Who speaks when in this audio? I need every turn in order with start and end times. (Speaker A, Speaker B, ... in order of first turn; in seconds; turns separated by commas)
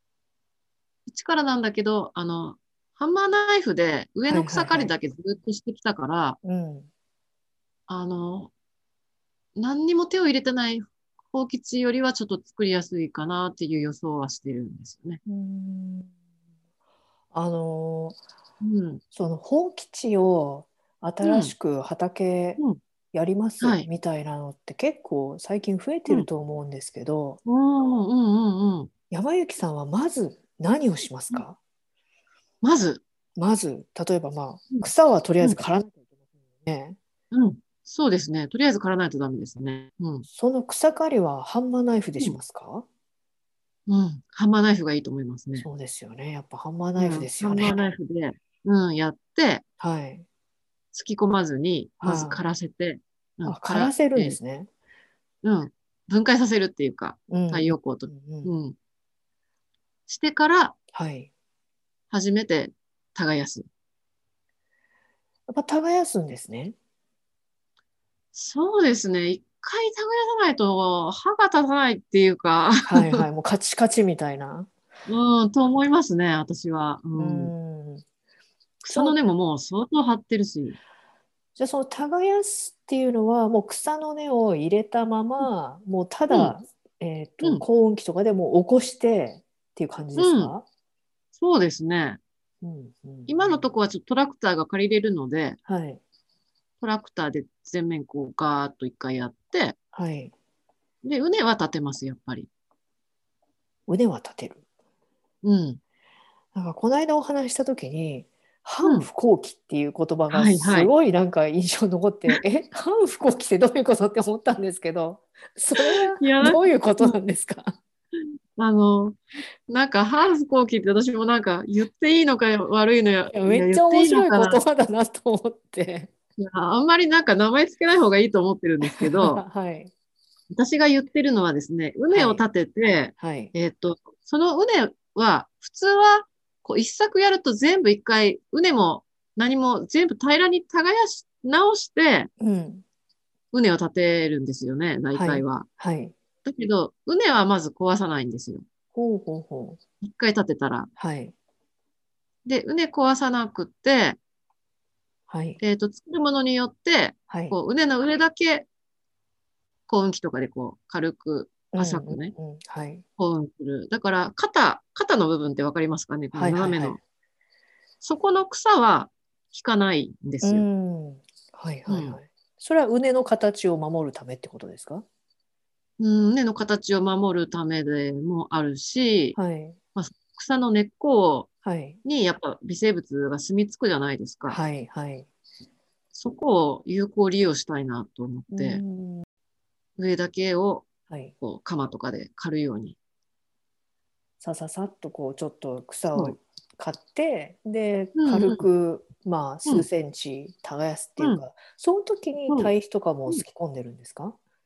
Speaker A: 1.1-6.4, Speaker B: 4.3-4.9, Speaker B: 6.4-6.9, Speaker A: 7.9-8.5, Speaker A: 9.6-15.2, Speaker B: 15.2-16.1, Speaker B: 17.3-18.2, Speaker A: 18.6-19.0, Speaker B: 19.1-22.6, Speaker A: 21.2-21.5, Speaker B: 23.1-27.4, Speaker A: 23.6-23.9, Speaker A: 27.4-28.9, Speaker B: 29.1-31.6, Speaker A: 32.6-33.0, Speaker B: 33.4-36.0, Speaker B: 36.6-37.0, Speaker A: 37.3-40.2, Speaker B: 40.3-42.9, Speaker A: 43.9-45.7, Speaker B: 45.6-47.8, Speaker A: 47.0-49.6, Speaker B: 49.8-50.2, Speaker A: 50.9-54.4, Speaker B: 52.0-52.4, Speaker B: 53.5-54.7, Speaker A: 55.4-58.8, Speaker B: 57.3-58.5, Speaker A: 60.1-60.7, Speaker B: 60.9-61.3, Speaker A: 62.1-63.6, Speaker B: 65.5-66.7, Speaker A: 68.3-73.2, Speaker B: 72.8-74.7, Speaker A: 75.1-77.5, Speaker B: 77.2-78.0, Speaker A: 78.8-80.8, Speaker B: 78.9-79.2, Speaker B: 81.5-90.6, Speaker A: 90.2-90.5, Speaker A: 91.3-92.2, Speaker B: 92.6-93.5, Speaker A: 93.3-95.6, Speaker B: 95.7-96.0, Speaker A: 96.8-99.8, Speaker B: 99.9-100.3, Speaker A: 101.0-102.5, Speaker B: 103.9-104.6, Speaker A: 105.4-105.8, Speaker B: 106.5-117.8, Speaker A: 108.8-109.1, Speaker A: 110.3-110.9, Speaker A: 115.8-117.2, Speaker A: 118.6-124.6, Speaker B: 123.3-126.1, Speaker A: 126.4-129.4, Speaker B: 128.8-129.9, Speaker A: 130.5-142.3, Speaker B: 132.1-132.4, Speaker B: 133.2-133.5, Speaker B: 142.4-142.8, Speaker A: 143.5-145.7, Speaker B: 145.1-146.1, Speaker A: 146.4-148.6, Speaker B: 148.9-149.8, Speaker A: 150.0-150.9, Speaker B: 151.0-151.3, Speaker A: 152.4-154.2, Speaker B: 155.3-155.6, Speaker A: 155.6-158.7, Speaker B: 157.3-157.5, Speaker A: 159.9-162.3, Speaker B: 161.7-163.0, Speaker A: 163.2-167.0, Speaker B: 166.3-167.0, Speaker A: 168.0-170.6, Speaker B: 170.4-175.0, Speaker A: 171.9-172.2, Speaker A: 176.0-179.4, Speaker B: 179.3-179.8, Speaker A: 179.9-181.5, Speaker B: 181.6-182.0, Speaker A: 182.0-184.6, Speaker B: 184.5-185.3, Speaker A: 186.1-188.8, Speaker B: 188.5-189.2, Speaker A: 190.0-190.9, Speaker A: 191.4-192.9, Speaker B: 194.4-204.4, Speaker A: 198.2-198.6, Speaker A: 202.5-202.7